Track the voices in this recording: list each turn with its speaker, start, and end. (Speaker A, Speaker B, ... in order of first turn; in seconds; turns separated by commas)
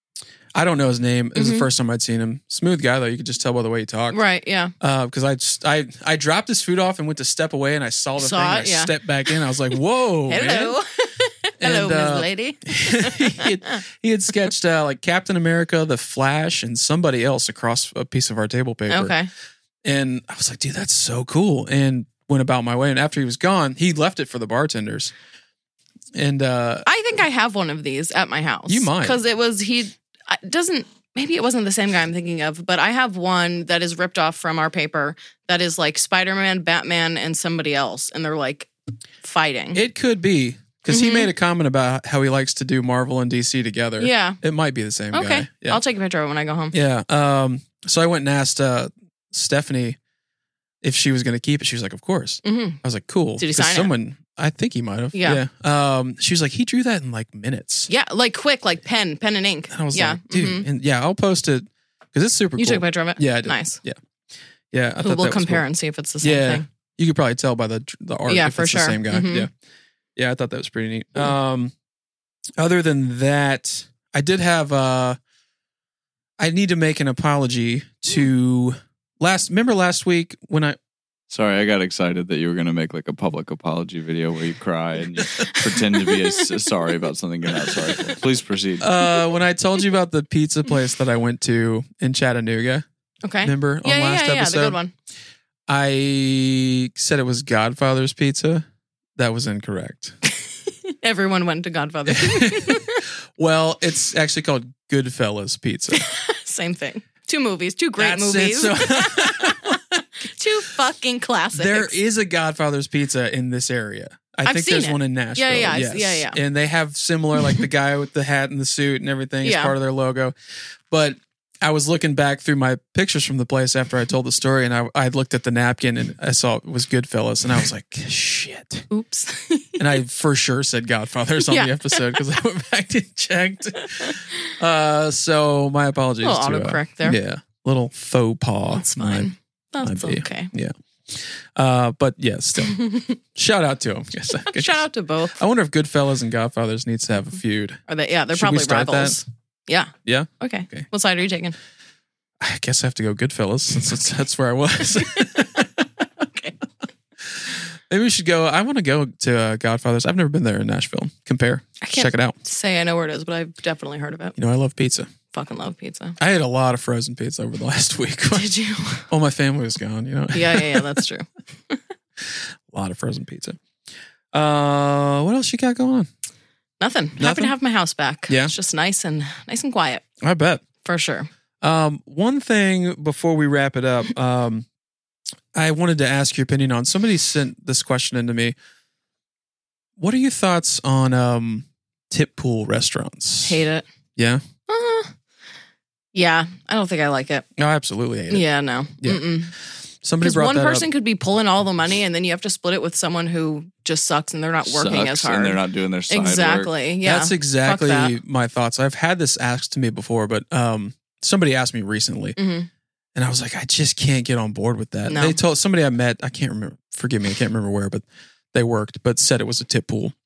Speaker A: 0.5-4.2, Speaker B: 1.4-1.7, Speaker B: 4.1-4.7, Speaker A: 4.8-10.8, Speaker B: 8.2-9.3, Speaker B: 10.3-13.8, Speaker A: 11.6-19.1, Speaker B: 18.9-19.3, Speaker A: 19.8-25.1, Speaker A: 26.1-26.9, Speaker B: 26.9-39.8, Speaker A: 28.7-29.2, Speaker A: 39.7-45.8, Speaker B: 40.9-41.3, Speaker B: 44.0-44.4, Speaker B: 45.1-46.7, Speaker A: 46.7-50.0, Speaker A: 50.8-57.9, Speaker B: 52.4-52.8, Speaker B: 53.4-53.9, Speaker B: 55.1-55.4, Speaker B: 57.9-60.7, Speaker A: 59.7-64.0, Speaker B: 62.6-63.8, Speaker A: 64.7-65.7, Speaker B: 65.0-66.7, Speaker A: 66.2-69.5, Speaker B: 68.3-69.5, Speaker A: 70.2-71.7, Speaker A: 72.6-75.2, Speaker A: 76.4-80.8, Speaker C: 81.3-88.9, Speaker A: 88.8-92.8, Speaker B: 93.2-94.9, Speaker A: 93.4-94.8, Speaker A: 95.7-98.7, Speaker A: 99.2-100.2, Speaker B: 100.7-103.0, Speaker A: 102.1-106.0, Speaker B: 105.9-112.0, Speaker A: 108.0-110.0, Speaker A: 111.5-120.3, Speaker B: 114.5-116.4, Speaker B: 119.4-119.8, Speaker A: 120.9-128.9, Speaker B: 128.9-129.8, Speaker A: 129.8-139.3, Speaker B: 131.5-132.2, Speaker B: 136.2-137.2, Speaker B: 138.7-140.5, Speaker A: 139.8-147.8, Speaker B: 142.7-143.2, Speaker B: 144.5-145.4, Speaker B: 147.9-151.6, Speaker A: 148.3-149.2, Speaker A: 150.1-150.9, Speaker A: 152.4-155.9, Speaker B: 156.2-156.6, Speaker A: 157.3-162.4, Speaker B: 161.8-164.4, Speaker A: 164.4-165.1, Speaker B: 165.3-166.2, Speaker A: 166.2-168.5, Speaker B: 168.3-169.1, Speaker A: 169.1-171.0, Speaker B: 170.3-171.8, Speaker A: 172.3-173.6, Speaker A: 174.3-176.1, Speaker B: 176.8-180.0, Speaker A: 177.2-177.5, Speaker A: 178.3-178.5, Speaker A: 180.2-180.6, Speaker B: 180.8-181.3, Speaker A: 181.6-184.7, Speaker A: 185.5-188.6, Speaker A: 190.0-193.6, Speaker B: 193.4-193.8, Speaker A: 194.2-194.4, Speaker B: 194.7-195.1, Speaker B: 196.1-197.4, Speaker A: 197.6-198.5, Speaker B: 198.3-199.5, Speaker A: 199.0-199.3, Speaker A: 200.0-200.9, Speaker B: 200.2-208.2, Speaker C: 204.7-206.7, Speaker A: 207.0-212.4, Speaker B: 212.4-212.7, Speaker A: 213.2-220.2, Speaker B: 215.1-215.4